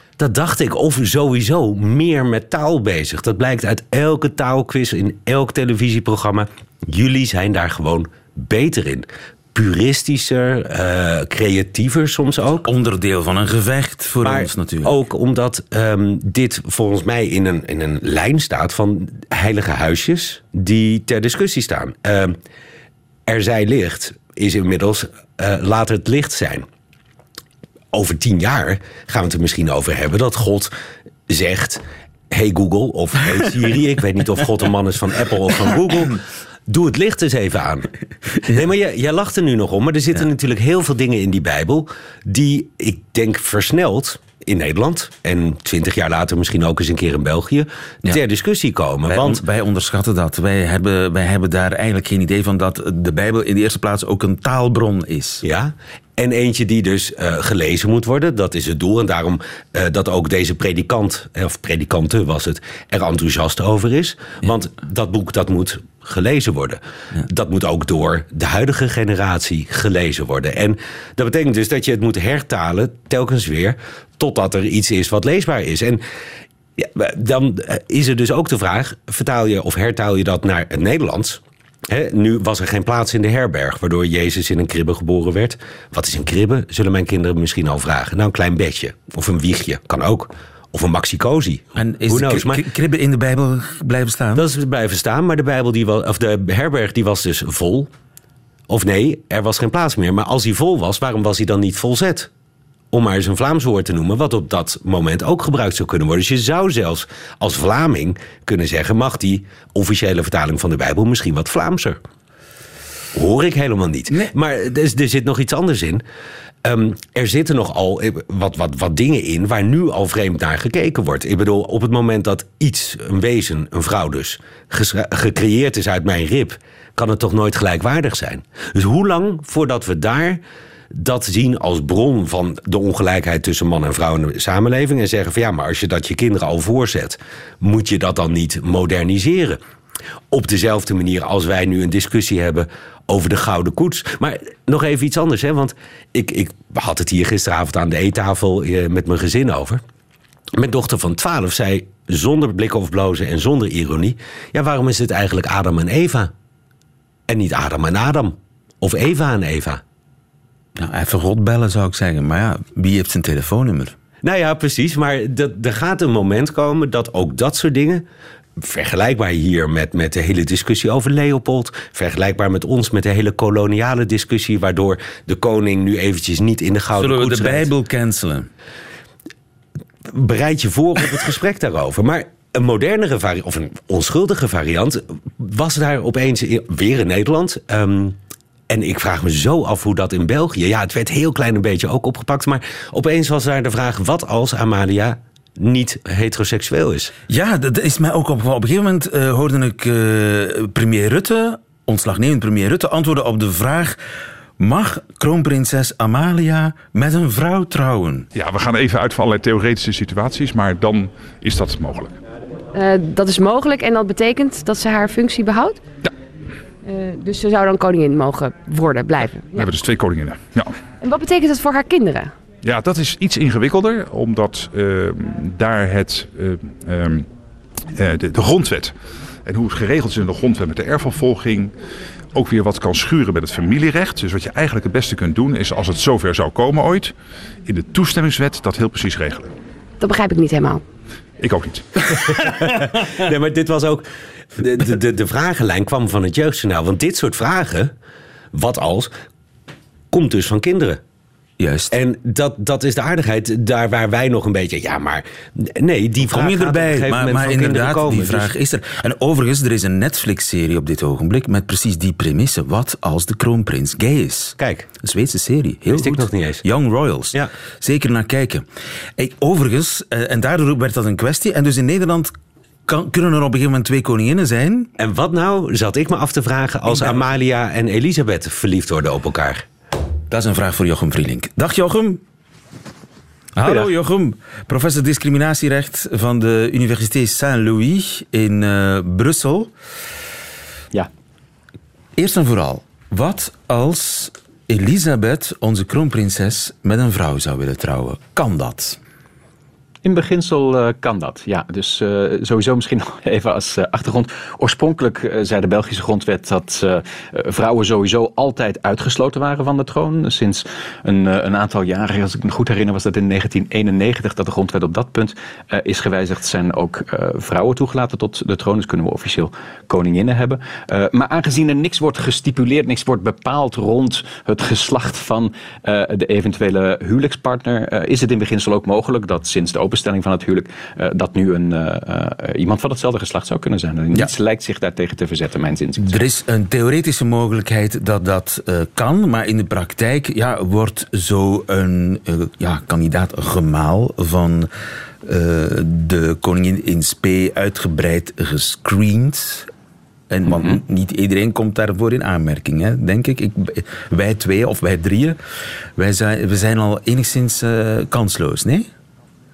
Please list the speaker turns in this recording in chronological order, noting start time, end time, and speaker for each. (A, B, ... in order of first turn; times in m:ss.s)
0:00.2-0:12.7 A
0:12.6-0:15.0 B
0:14.2-0:22.4 A
0:23.3-0:26.6 A
0:27.9-0:30.7 A
0:31.3-0:49.4 A
0:49.1-0:55.4 B
0:55.4-1:16.0 A
1:16.8-1:32.6 A
1:31.8-1:34.5 B
1:34.4-1:37.9 A
1:38.7-1:42.3 A
1:42.9-1:52.0 A
1:53.2-1:56.0 A
1:56.6-2:10.4 A
2:10.9-2:19.6 A
2:20.3-2:29.8 A
2:30.6-2:36.3 A
2:37.3-2:39.8 A
2:40.8-2:44.0 B
2:44.2-2:48.0 A
2:48.6-2:57.7 A
2:57.0-2:58.5 B
3:00.1-3:08.2 A
3:08.7-3:17.1 A
3:17.3-3:24.0 B
3:24.6-3:28.3 B
3:28.3-3:32.2 C
3:32.7-3:35.8 D
3:36.8-3:39.7 D
3:39.5-3:40.7 C
3:41.0-3:42.3 D
3:42.6-3:47.3 C
3:48.0-3:48.9 C
3:49.4-3:51.7 C
3:52.3-3:57.1 C
3:57.7-3:59.5 C
4:00.0-4:00.8 D
4:01.4-4:02.4 C
4:02.4-4:04.0 A
4:04.6-4:07.9 A
4:08.5-4:09.1 A
4:10.1-4:11.0 A
4:11.6-4:11.9 B
4:11.9-4:18.5 A
4:16.2-4:28.7 B
4:24.6-4:24.9 A
4:25.9-4:26.6 A
4:29.2-4:32.3 B
4:32.9-4:34.9 B
4:35.0-4:39.6 A
4:36.9-4:37.2 B
4:40.3-4:42.2 B
4:43.6-4:49.7 B
4:52.2-4:59.0 B
5:00.0-5:36.2 E
5:36.0-5:44.7 B
5:45.2-5:49.7 B
5:50.3-5:55.4 B
5:50.5-5:50.8 E
5:56.0-5:58.9 B